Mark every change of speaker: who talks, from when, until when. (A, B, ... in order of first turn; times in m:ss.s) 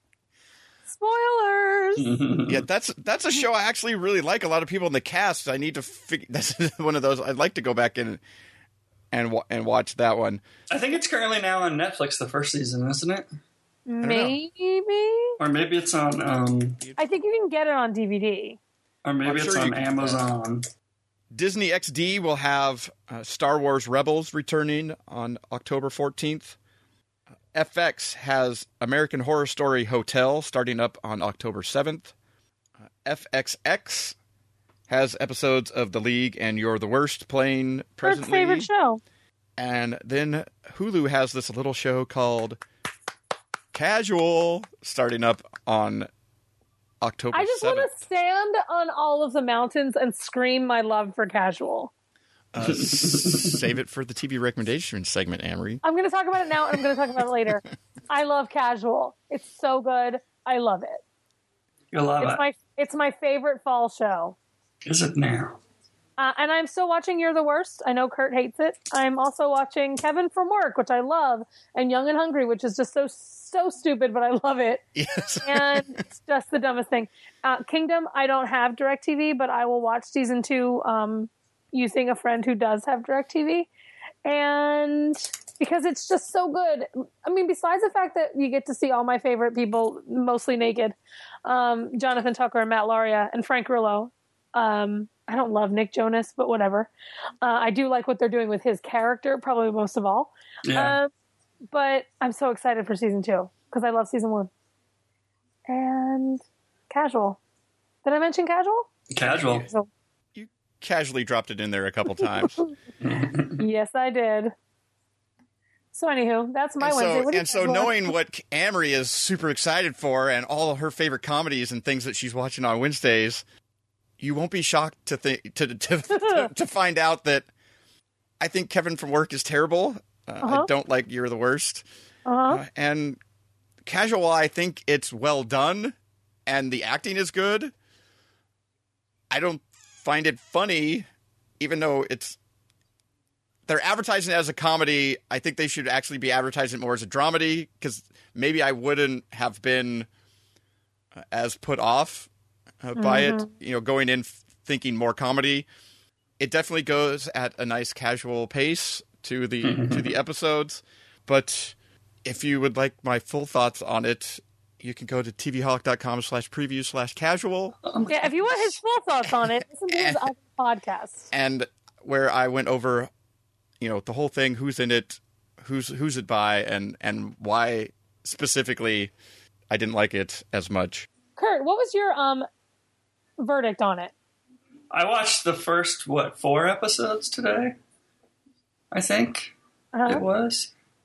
0:00.9-0:02.0 A
0:02.0-0:02.6 B
0:02.5-0:08.2 C
0:09.1-0:10.4 C
0:10.7-0:13.3 B
0:13.9-0:15.4 A
0:14.0-0:14.4 C
0:15.4-0:16.8 B
0:17.0-0:18.6 A
0:19.0-0:20.6 B
0:19.2-0:20.2 C
0:21.3-0:26.6 C
0:27.5-0:32.1 C
0:33.0-0:34.2 C
0:34.9-0:38.7 C
0:38.0-0:39.0 A
0:39.6-0:42.6 C
0:43.7-0:46.1 C
0:47.0-0:47.9 C
0:47.3-0:51.9 A
0:52.5-0:55.8 C
0:52.6-0:53.6 B
0:55.8-1:01.0 A
1:01.9-1:02.4 B
1:02.2-1:04.4 A
1:04.8-1:05.6 B
1:06.2-1:14.8 A
1:14.9-1:16.0 C
1:15.4-1:23.7 A
1:24.2-1:36.9 A
1:37.4-1:41.1 A
1:40.6-1:41.0 B
1:41.7-1:44.5 A
1:45.7-1:47.4 A
1:48.0-1:48.9 A
1:49.1-1:49.7 B
1:49.5-1:49.9 A
1:50.3-1:52.6 C
1:53.0-1:53.6 B
1:53.6-1:54.5 A
1:55.9-1:58.1 A
1:56.8-2:03.4 C
2:04.2-2:07.5 C
2:06.1-2:06.5 A
2:08.4-2:11.8 C
2:10.4-2:10.7 A
2:12.2-2:12.6 A
2:12.5-2:13.2 C
2:13.8-2:15.9 C
2:16.5-2:17.7 C
2:19.3-2:21.0 C
2:21.6-2:22.4 C
2:23.7-2:30.1 C
2:31.1-2:32.3 C
2:32.8-2:35.7 C
2:33.0-2:33.5 A
2:36.4-2:47.8 C
2:39.6-2:40.1 B
2:47.8-2:48.5 B
2:48.1-2:51.3 A
2:49.9-2:50.2 C
2:51.3-2:53.1 C
2:53.8-2:59.1 C
2:59.7-3:01.1 C
3:01.4-3:02.4 A
3:03.4-3:04.1 A
3:04.9-3:07.7 B
3:08.9-3:09.5 B
3:09.9-3:10.2 A
3:10.1-3:10.7 B